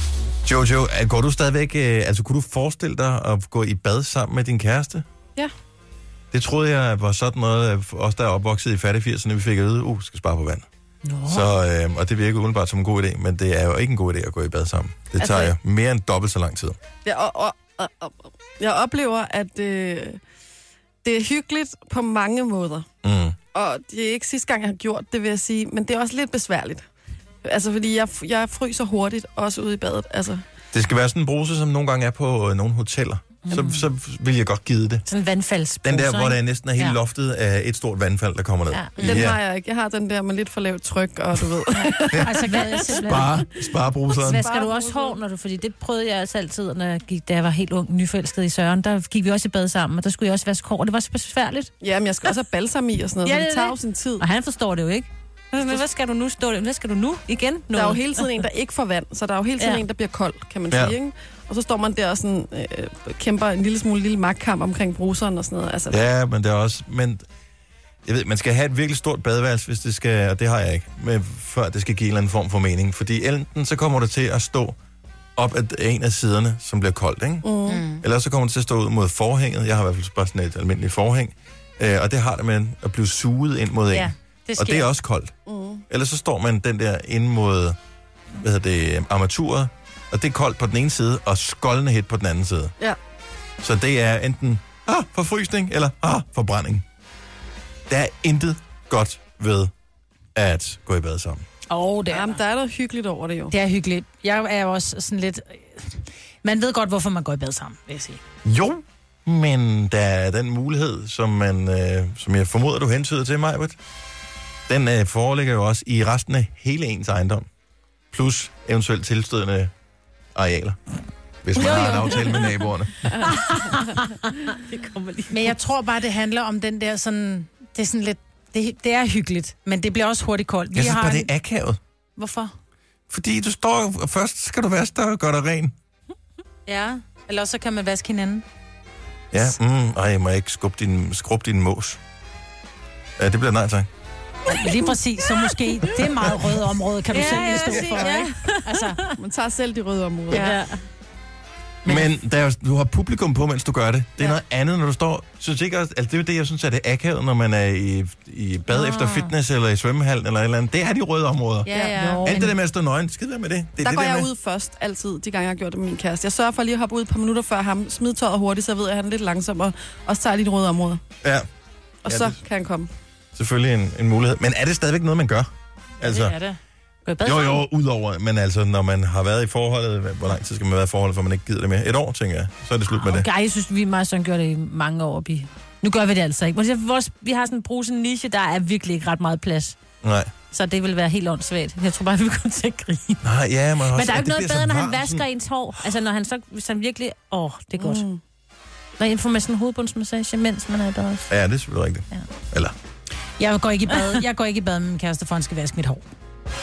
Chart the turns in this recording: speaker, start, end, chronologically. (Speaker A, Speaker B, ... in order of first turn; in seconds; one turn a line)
Speaker A: 0.4-5.0
Speaker A: 6.3-10.7
Speaker B: 11.1-11.4
Speaker A: 11.2-16.8
Speaker C: 15.2-15.5
Speaker C: 17.0-20.2
Speaker C: 21.0-22.9
Speaker A: 23.0-23.4
Speaker C: 23.5-26.9
Speaker C: 27.4-30.4
Speaker A: 30.7-35.0
Speaker B: 33.5-33.7
Speaker B: 35.0-37.0
Speaker A: 35.8-39.4
Speaker B: 38.7-39.1
Speaker C: 39.0-43.5
Speaker D: 42.2-43.0
Speaker B: 42.4-43.4
Speaker A: 43.0-44.5
Speaker C: 44.1-45.2
Speaker B: 44.2-51.7
Speaker C: 51.8-54.2
Speaker B: 53.2-58.4
Speaker C: 57.7-66.0
Speaker B: 59.6-59.9
Speaker A: 65.9-67.2
Speaker A: 68.0-74.8
Speaker A: 75.4-77.5
Speaker C: 77.4-77.9
Speaker D: 77.7-78.0
Speaker A: 78.0-85.3
Speaker D: 83.9-84.9
Speaker C: 85.5-85.8
Speaker A: 85.9-87.8
Speaker A: 88.4-92.7
Speaker A: 93.6-96.8
Speaker A: 97.9-99.7
Speaker A: 100.3-101.4
Speaker D: 101.7-102.4
Speaker C: 102.0-103.5
Speaker D: 103.5-108.2
Speaker A: 108.4-113.8
Speaker A: 114.7-117.5
Speaker A: 118.1-119.7
Speaker A: 120.3-120.8
Speaker A: 121.4-123.2
Speaker C: 121.5-122.2
Speaker D: 121.6-122.5
Speaker C: 123.0-124.1
Speaker D: 123.2-124.1
Speaker B: 124.7-125.6
Speaker D: 125.3-131.3
Speaker A: 130.7-131.8
Speaker D: 132.2-132.5
Speaker A: 133.1-135.7
Speaker D: 136.7-138.4
Speaker A: 139.3-142.0
Speaker A: 143.2-143.9
Speaker D: 144.5-149.0
Speaker B: 147.0-149.2
Speaker C: 147.2-148.3
Speaker C: 149.2-150.5
Speaker B: 150.3-150.8
Speaker A: 151.8-164.3
Speaker B: 158.7-159.3
Speaker C: 161.7-162.4
Speaker B: 161.7-162.5
Speaker C: 163.8-171.0
Speaker C: 172.0-172.9
Speaker A: 172.1-172.4
Speaker A: 173.3-176.4
Speaker D: 176.0-176.6
Speaker B: 177.0-177.6
Speaker A: 177.2-183.3
Speaker B: 182.9-189.8
Speaker A: 190.0-190.3
Speaker B: 190.5-193.2
Speaker A: 193.2-195.2
Speaker B: 193.9-198.0
Speaker C: 197.7-198.2
Speaker B: 199.0-201.3
Speaker A: 201.3-202.7
Speaker D: 203.4-206.1
Speaker B: 203.9-204.2